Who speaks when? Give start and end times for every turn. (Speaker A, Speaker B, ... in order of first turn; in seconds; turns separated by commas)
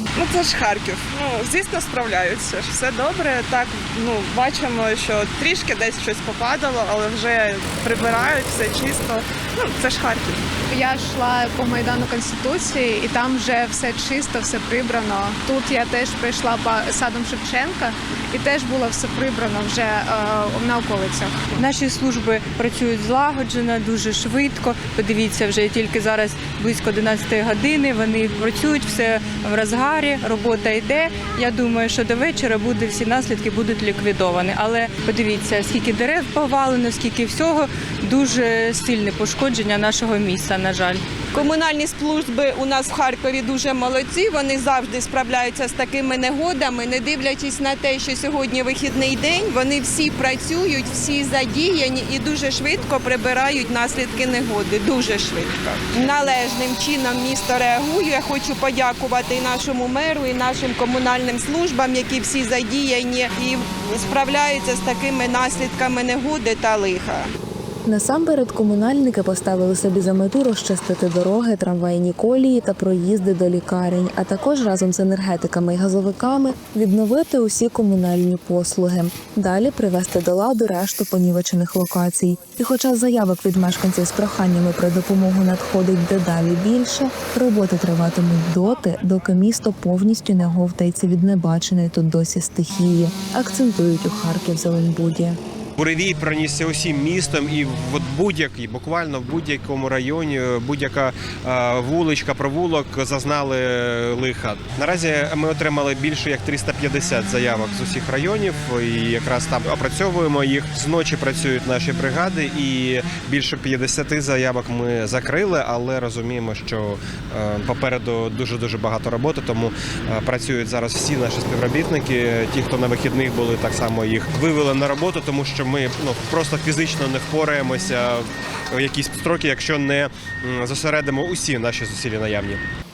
Speaker A: 0.1-10.4, Speaker B: 10.7-21.5, Speaker C: 21.5-41.0, Speaker A: 41.3-67.3, Speaker D: 67.8-95.4, Speaker E: 95.8-132.6